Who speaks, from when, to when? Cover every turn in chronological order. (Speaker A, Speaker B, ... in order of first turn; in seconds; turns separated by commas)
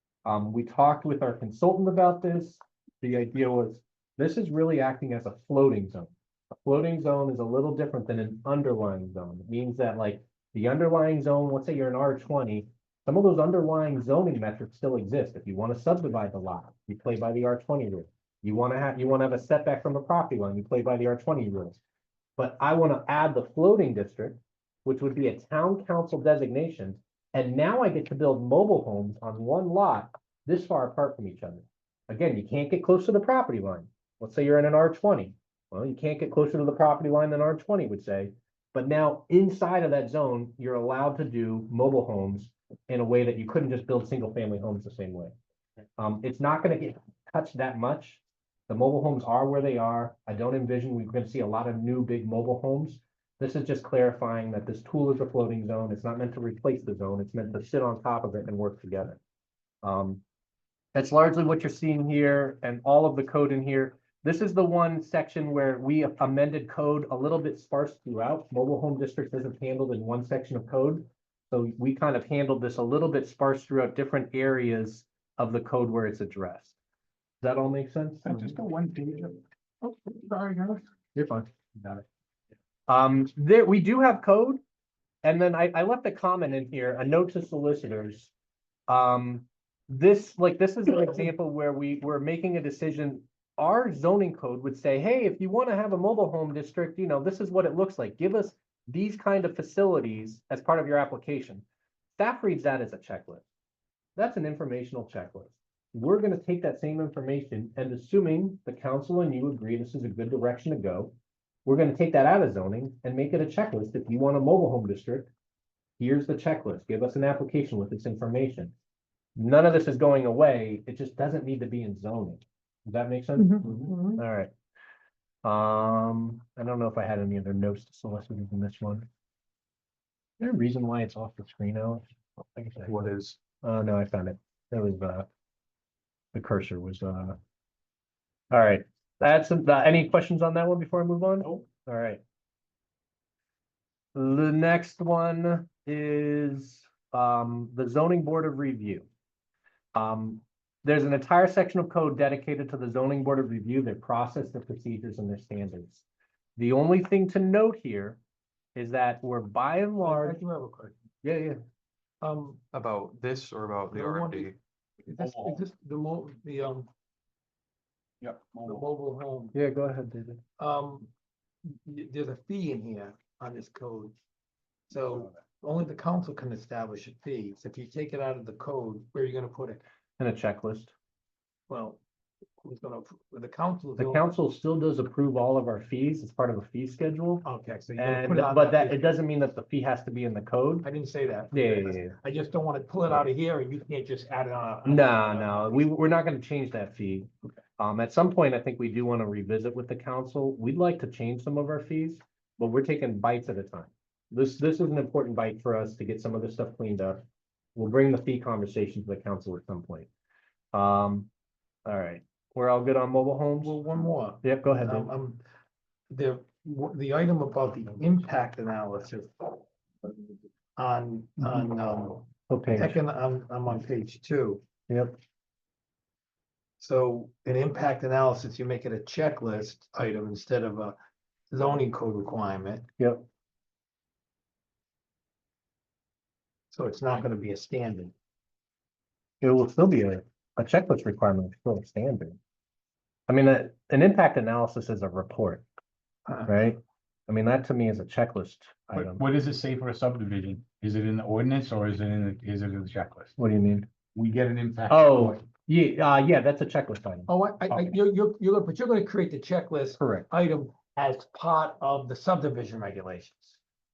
Speaker A: 0.2-21.8, Speaker A: 22.4-45.3, Speaker A: 46.0-59.2, Speaker A: 59.8-60.2, Speaker A: 60.9-76.7, Speaker A: 77.4-78.5, Speaker B: 78.2-79.3, Speaker C: 79.8-80.8, Speaker A: 81.1-81.5, Speaker A: 82.9-84.6, Speaker A: 85.2-88.3, Speaker A: 88.9-101.6, Speaker A: 102.2-103.4, Speaker A: 104.2-111.1, Speaker A: 111.6-115.3, Speaker A: 116.0-118.7, Speaker A: 119.3-124.5, Speaker C: 123.4-124.2, Speaker A: 125.4-129.1, Speaker A: 130.4-133.1, Speaker D: 132.8-133.4, Speaker A: 133.6-135.3, Speaker A: 136.3-137.4, Speaker A: 138.5-142.2, Speaker A: 144.1-149.1, Speaker A: 149.9-156.0, Speaker A: 156.6-158.2, Speaker A: 158.7-160.4, Speaker C: 160.0-160.9, Speaker A: 161.2-161.6, Speaker C: 162.2-162.8, Speaker D: 162.8-164.6, Speaker C: 163.9-164.5, Speaker C: 165.1-166.9, Speaker B: 165.2-165.6, Speaker B: 168.2-168.8, Speaker C: 168.6-169.5, Speaker A: 169.5-170.4, Speaker C: 170.6-171.1, Speaker C: 171.6-174.1, Speaker C: 174.9-179.8, Speaker A: 180.2-180.9, Speaker C: 181.7-182.0, Speaker C: 182.6-184.2, Speaker A: 184.0-187.4, Speaker C: 187.4-189.1, Speaker A: 187.9-190.9, Speaker C: 190.8-195.8, Speaker A: 191.5-192.2, Speaker A: 194.8-207.2, Speaker A: 207.8-210.1, Speaker A: 210.7-211.3, Speaker A: 211.8-213.8, Speaker C: 213.6-215.4, Speaker A: 214.4-215.1, Speaker C: 216.1-219.6, Speaker C: 220.8-224.6, Speaker A: 222.5-223.0, Speaker A: 224.9-225.1, Speaker C: 226.8-230.9, Speaker C: 231.5-232.8, Speaker A: 233.0-233.2, Speaker C: 236.7-238.1, Speaker A: 239.4-242.4, Speaker A: 243.3-245.6, Speaker C: 246.2-246.5, Speaker A: 246.5-249.2, Speaker B: 248.9-253.3, Speaker A: 253.4-253.9, Speaker B: 254.1-255.4, Speaker A: 254.9-257.9, Speaker C: 257.3-263.6, Speaker A: 260.0-260.2